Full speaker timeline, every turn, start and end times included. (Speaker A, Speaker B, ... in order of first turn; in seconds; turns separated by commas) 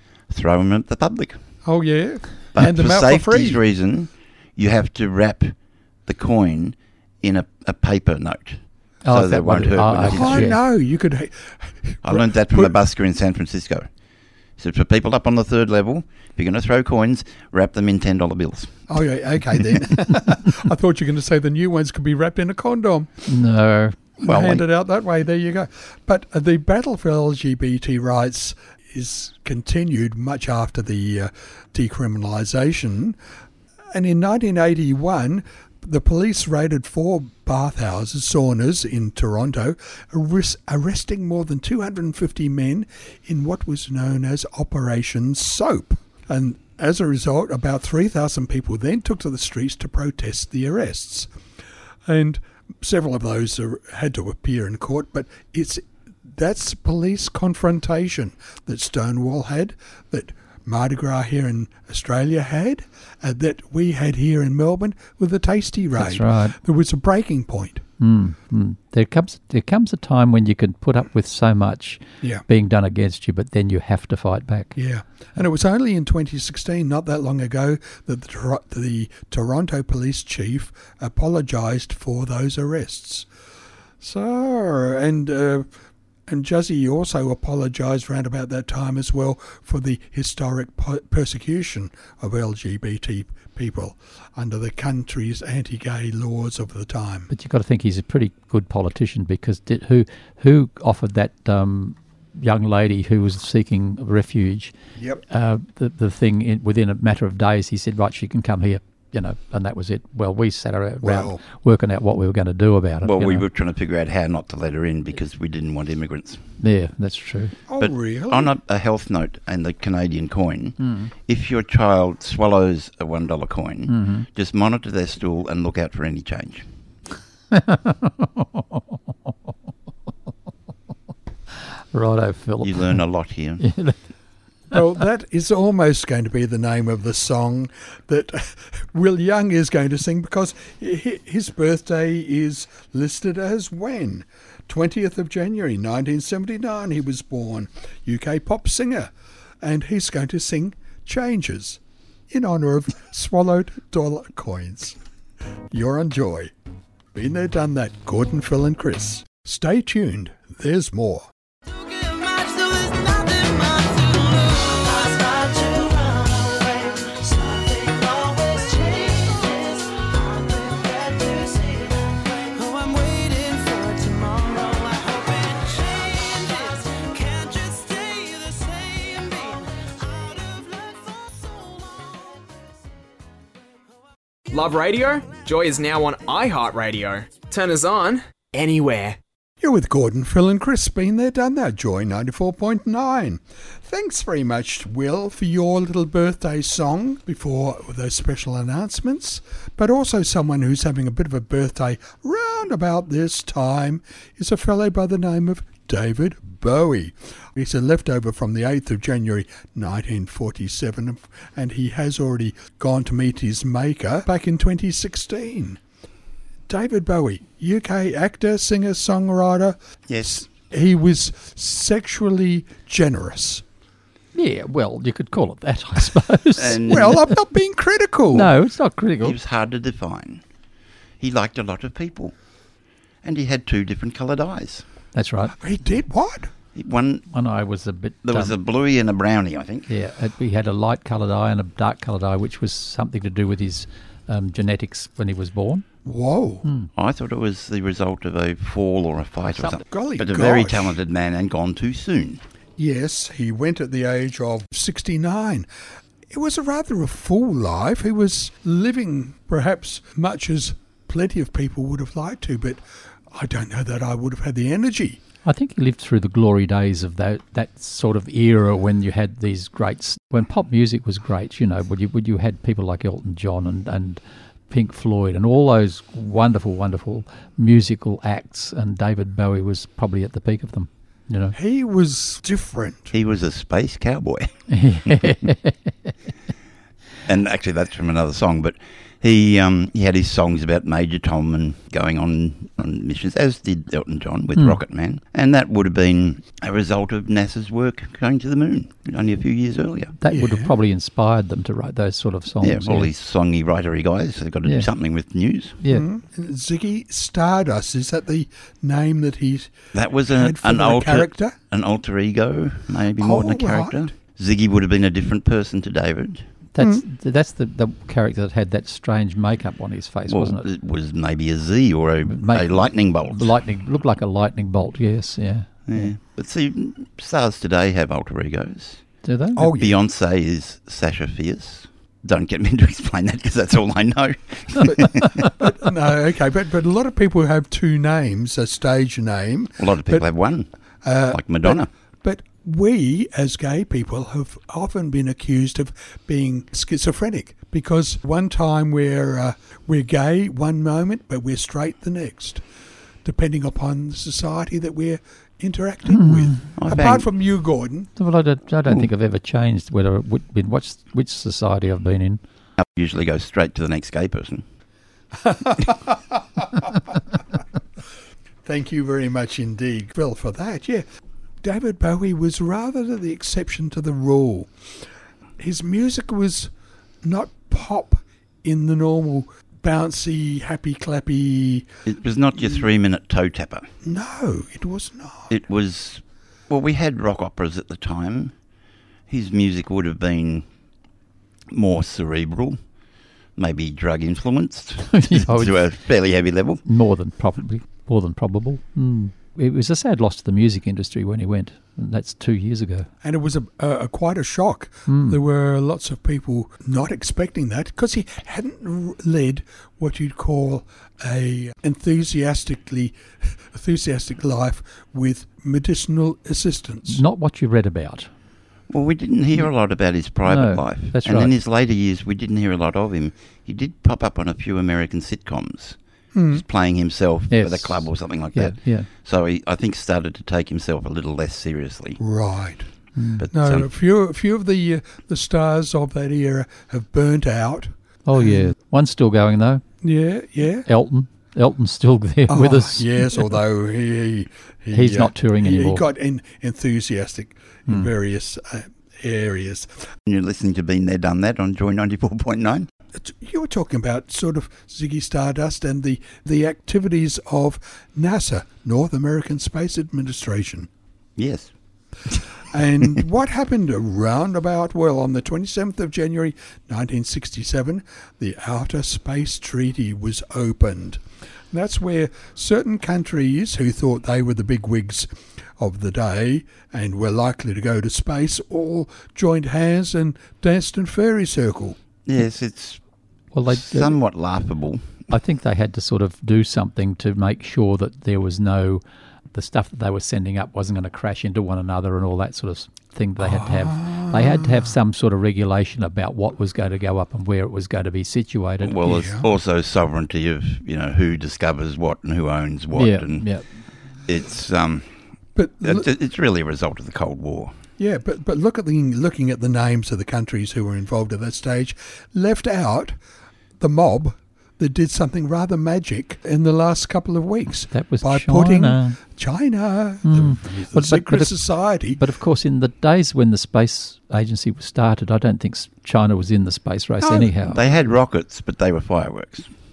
Speaker A: 0.3-1.4, Speaker B: 1.6-3.6, Speaker A: 2.5-10.5, Speaker C: 9.0-10.6, Speaker B: 10.1-12.7, Speaker A: 12.0-13.9, Speaker A: 14.6-18.9, Speaker B: 18.9-23.1, Speaker C: 23.2-24.1, Speaker B: 24.2-33.2, Speaker A: 24.2-24.6, Speaker B: 33.9-51.3, Speaker B: 52.0-67.8, Speaker C: 66.0-66.6, Speaker C: 68.0-74.8, Speaker B: 74.8-83.3, Speaker B: 84.0-85.7, Speaker B: 86.3-97.3, Speaker C: 97.3-104.7, Speaker B: 105.0-105.2, Speaker C: 105.3-113.4, Speaker B: 111.0-111.4, Speaker A: 113.0-116.5, Speaker C: 116.6-117.5, Speaker B: 117.7-118.5, Speaker A: 117.8-126.7, Speaker C: 120.8-121.1, Speaker C: 123.9-124.3, Speaker C: 127.5-128.8, Speaker C: 131.5-133.0, Speaker A: 132.6-133.6, Speaker C: 133.6-134.0, Speaker B: 134.7-155.0, Speaker B: 155.7-156.5, Speaker B: 157.1-161.3, Speaker D: 161.7-182.4, Speaker E: 184.5-189.2, Speaker B: 189.6-215.8, Speaker B: 216.7-219.8, Speaker A: 220.1-220.4, Speaker B: 220.5-223.6, Speaker C: 224.3-227.2, Speaker A: 226.6-227.2, Speaker B: 226.8-228.5, Speaker C: 228.3-229.4, Speaker A: 229.2-230.4, Speaker A: 231.2-232.3, Speaker A: 233.2-234.8, Speaker C: 235.1-235.5, Speaker B: 235.6-236.5, Speaker A: 236.7-237.3, Speaker C: 237.3-238.5, Speaker A: 238.2-239.9, Speaker C: 239.9-245.8, Speaker B: 246.0-246.7, Speaker C: 246.6-246.9, Speaker A: 246.9-252.4, Speaker B: 249.5-251.0, Speaker B: 252.8-255.7, Speaker B: 256.3-265.2, Speaker C: 265.4-281.6, Speaker B: 281.5-283.1, Speaker A: 283.1-284.5, Speaker C: 284.7-286.1, Speaker A: 285.0-285.3, Speaker A: 287.2-300.1, Speaker C: 300.2-303.1, Speaker B: 300.3-300.7, Speaker A: 302.6-305.8, Speaker B: 305.9-309.7, Speaker A: 309.9-316.5, Speaker B: 310.3-311.6, Speaker B: 313.2-314.1, Speaker C: 316.7-320.6, Speaker B: 316.8-317.0, Speaker A: 320.3-323.5, Speaker C: 322.3-326.1, Speaker A: 325.9-329.0, Speaker C: 329.2-329.7, Speaker B: 329.6-330.0, Speaker A: 329.6-335.5, Speaker B: 334.9-340.2, Speaker A: 339.8-340.7, Speaker B: 341.0-352.6, Speaker A: 341.3-341.9, Speaker B: 353.2-358.1, Speaker C: 356.1-356.7, Speaker A: 356.8-357.3, Speaker C: 358.2-362.4, Speaker A: 362.8-364.6, Speaker B: 365.4-367.1, Speaker B: 368.6-371.0, Speaker B: 371.6-374.7, Speaker B: 375.6-376.7, Speaker B: 377.2-381.9, Speaker A: 382.1-383.9, Speaker B: 384.0-385.5, Speaker A: 385.5-388.5, Speaker A: 389.3-390.6, Speaker A: 391.7-392.8, Speaker A: 393.6-396.8, Speaker C: 395.1-395.8, Speaker C: 396.9-403.1, Speaker B: 403.2-417.2, Speaker C: 405.1-405.4, Speaker C: 417.1-418.3, Speaker A: 418.9-426.0, Speaker C: 420.4-421.5, Speaker B: 426.3-426.6, Speaker A: 426.5-432.2, Speaker C: 427.5-429.1, Speaker B: 432.2-432.9, Speaker C: 433.1-433.4, Speaker A: 433.4-433.9, Speaker B: 433.5-438.7, Speaker C: 438.2-439.8, Speaker B: 440.0-440.9, Speaker C: 440.9-443.5, Speaker B: 442.5-450.0, Speaker C: 444.9-446.1, Speaker A: 450.3-452.9, Speaker B: 453.1-460.9, Speaker A: 461.4-461.7, Speaker B: 462.7-482.0, Speaker A: 482.2-483.0, Speaker C: 483.5-484.2, Speaker A: 483.7-485.3, Speaker C: 485.3-489.0, Speaker C: 489.5-499.0, Speaker B: 493.4-494.9, Speaker A: 498.8-503.5, Speaker B: 499.0-499.4, Speaker C: 502.9-503.6, Speaker A: 504.2-505.1, Speaker B: 505.6-506.1, Speaker A: 505.8-507.7, Speaker B: 508.0-513.2, Speaker B: 513.8-522.2, Speaker C: 517.9-519.2, Speaker C: 520.2-521.6, Speaker C: 522.1-527.8, Speaker B: 527.2-527.5, Speaker A: 527.6-529.7